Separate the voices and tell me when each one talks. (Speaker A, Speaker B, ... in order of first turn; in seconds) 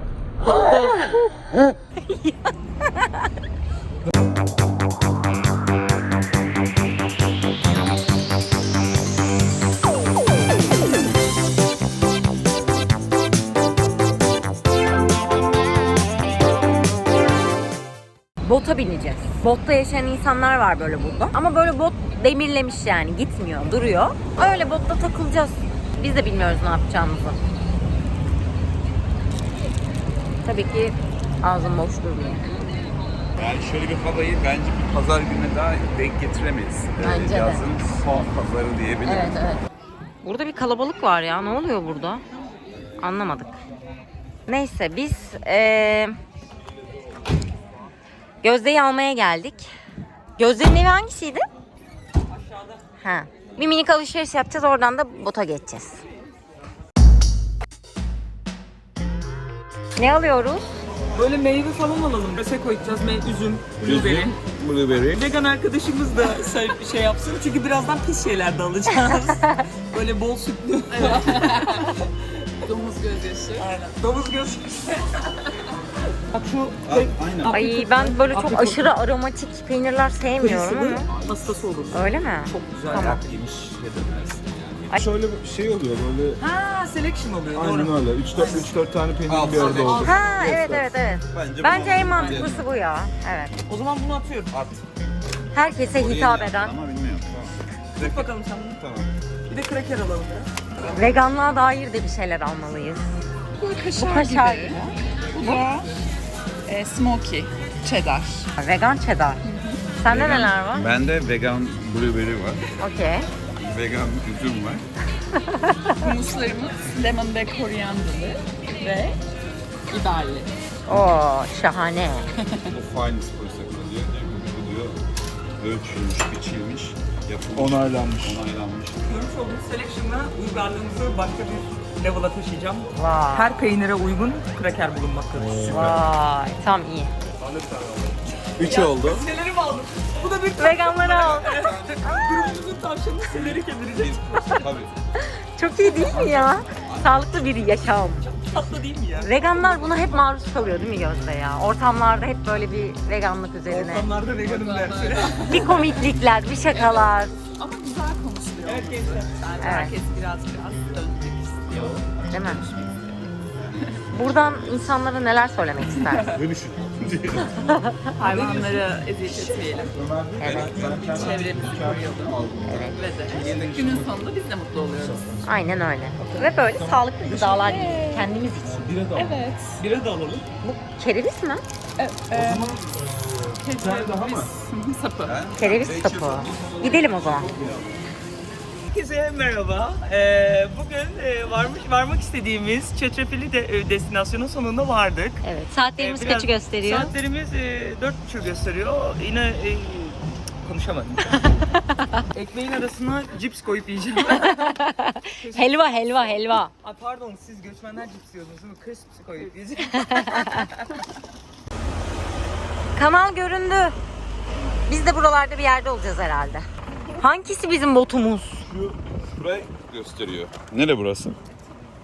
Speaker A: 2.1-2.3, 18.4-27.4, 30.4-32.5, 37.0-37.6, 39.0-39.6, 40.2-42.2, 43.0-43.6, 44.5-46.2, 48.4-49.7, 50.4-51.4, 53.0-56.0, 60.0-60.7, 77.5-81.1, 81.9-83.2, 90.0-93.5, 95.5-96.7, 100.9-103.0, 104.0-104.8, 108.6-109.4, 110.0-110.8, 112.8-113.2, 115.4-116.1, 120.8-122.3, 132.9-133.6, 135.7-137.1, 140.6-142.1, 145.3-148.3, 149.2-154.1, 155.4-157.3, 159.6-159.9, 162.3-162.6, 164.1-166.4, 167.6-168.0, 170.4-170.9, 172.6-173.0, 175.4-178.9, 180.6-181.6, 185.6-187.5, 195.4-197.1, 201.7-202.2, 204.3-206.7, 209.9-210.7, 212.9-213.9, 214.9-218.7
Speaker B: 33.4-39.4, 63.8-65.2, 76.8-77.6, 81.0-85.0, 89.2-90.1, 91.3-92.7, 94.5-94.8, 95.8-99.1, 110.1-112.6, 113.6-114.8, 122.7-125.0, 125.6-129.0, 138.6-139.2, 143.3-144.9, 146.0-147.4, 170.4-172.0, 185.2-187.5, 219.3-221.4
Speaker C: 61.1-64.3, 65.1-71.7, 72.6-75.3, 76.3-78.9, 80.4-83.2, 86.4-88.7, 89.6-90.4, 92.0-92.5, 93.7-94.6, 98.0-98.8, 99.5-100.5, 129.0-135.8, 138.6-144.8, 148.2-149.3, 153.7-155.5, 158.6-161.6, 168.3-169.9, 170.6-172.3, 172.9-173.4, 179.7-180.4, 188.9-195.4, 196.0-201.4, 202.3-204.7, 205.4-210.8
Speaker D: 71.2-71.6, 72.8-73.6, 103.6-105.9, 106.7-108.5, 116.0-119.2, 119.9-120.5, 154.7-155.8, 157.6-162.7, 168.1-169.9, 170.8-172.1, 173.3-175.2, 177.6-178.3, 179.1-179.8, 182.0-182.7, 183.6-185.3
Speaker E: 84.9-86.4, 87.5-90.9, 127.5-128.4, 135.6-135.8, 137.4-138.5, 166.3-167.6, 168.2-168.6, 169.9-174.2, 175.0-175.3, 176.7-178.1, 178.7-179.4, 182.3-184.6, 187.3-187.8